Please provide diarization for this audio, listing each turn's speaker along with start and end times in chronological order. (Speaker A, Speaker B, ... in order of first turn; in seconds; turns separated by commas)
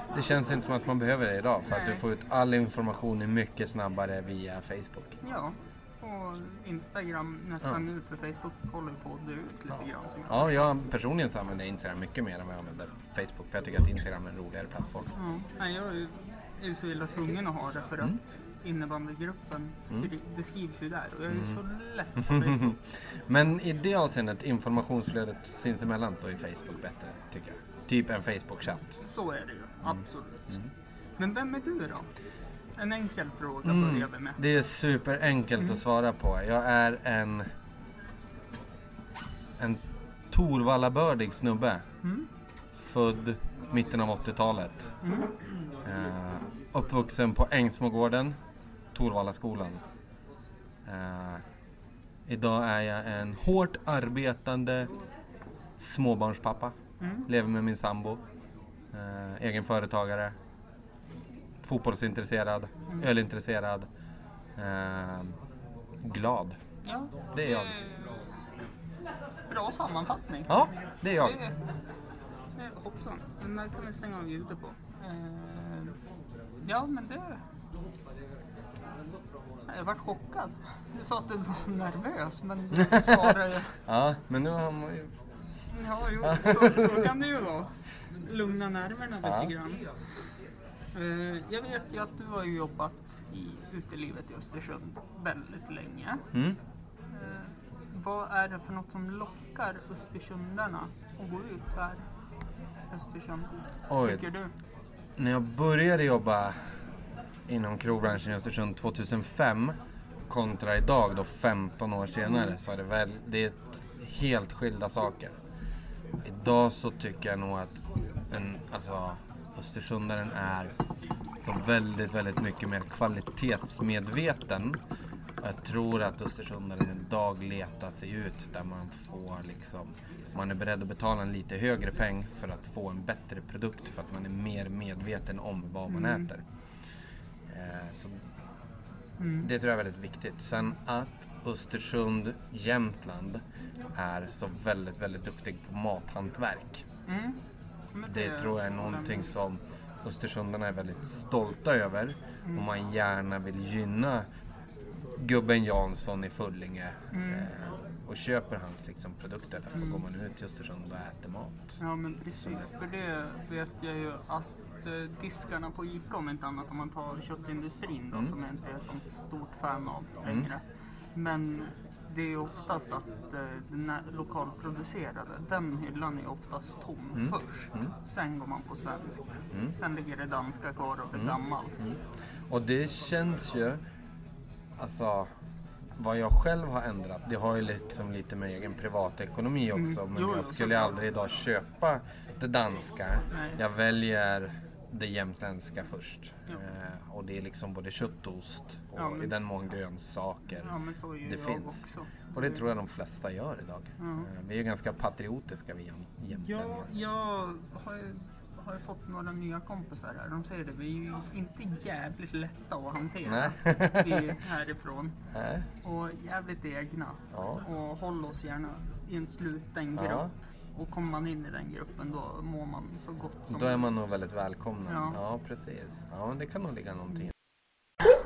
Speaker A: 0.1-5.2, Speaker B: 1.7-2.0, Speaker B: 5.2-10.5, Speaker A: 9.7-15.1, Speaker B: 15.2-22.6, Speaker A: 21.3-21.6, Speaker A: 22.2-29.0, Speaker B: 29.0-30.4, Speaker A: 29.8-30.7, Speaker B: 31.2-32.0, Speaker B: 32.8-34.3, Speaker A: 33.6-37.5, Speaker A: 39.6-41.8, Speaker A: 42.8-45.0, Speaker A: 45.8-48.4, Speaker A: 48.9-49.8, Speaker A: 50.9-51.4, Speaker A: 52.3-54.9, Speaker A: 55.8-56.7, Speaker A: 57.3-58.2, Speaker A: 58.9-60.3, Speaker A: 61.6-63.9, Speaker A: 64.6-65.3, Speaker A: 66.0-66.5, Speaker B: 66.8-68.2, Speaker A: 67.3-67.7, Speaker B: 69.5-70.5, Speaker A: 70.5-71.4, Speaker B: 71.2-71.5, Speaker B: 72.6-75.9, Speaker B: 76.6-77.4, Speaker B: 79.7-83.7, Speaker A: 82.8-85.1, Speaker B: 85.7-89.8, Speaker A: 86.2-87.1, Speaker A: 89.2-89.5, Speaker B: 90.9-96.2, Speaker A: 96.3-96.6, Speaker B: 97.1-102.0, Speaker B: 102.9-104.5, Speaker A: 103.9-104.3, Speaker A: 105.2-106.6, Speaker A: 107.5-109.8, Speaker A: 110.3-115.3, Speaker A: 116.2-120.7, Speaker A: 121.3-124.8, Speaker A: 125.4-136.4, Speaker B: 135.9-136.2, Speaker A: 137.5-138.2, Speaker B: 139.2-139.5, Speaker A: 139.4-143.4, Speaker A: 143.9-146.8, Speaker B: 147.1-147.4, Speaker B: 147.9-149.3, Speaker A: 148.1-154.3, Speaker A: 155.2-161.8, Speaker B: 157.1-157.5, Speaker B: 161.8-170.6, Speaker A: 162.3-162.7, Speaker A: 168.1-168.4, Speaker A: 170.2-170.5, Speaker B: 171.2-181.7, Speaker A: 177.1-177.9, Speaker A: 181.1-183.8, Speaker A: 184.8-185.3, Speaker A: 186.0-206.9, Speaker B: 189.7-191.0, Speaker B: 193.3-193.6, Speaker B: 199.0-199.4, Speaker B: 200.5-202.6, Speaker B: 204.0-204.2, Speaker B: 206.3-215.1, Speaker A: 213.2-214.4, Speaker A: 215.3-215.7, Speaker B: 215.8-223.9, Speaker A: 217.3-217.6, Speaker A: 219.9-220.3, Speaker A: 223.5-227.3, Speaker B: 224.8-225.2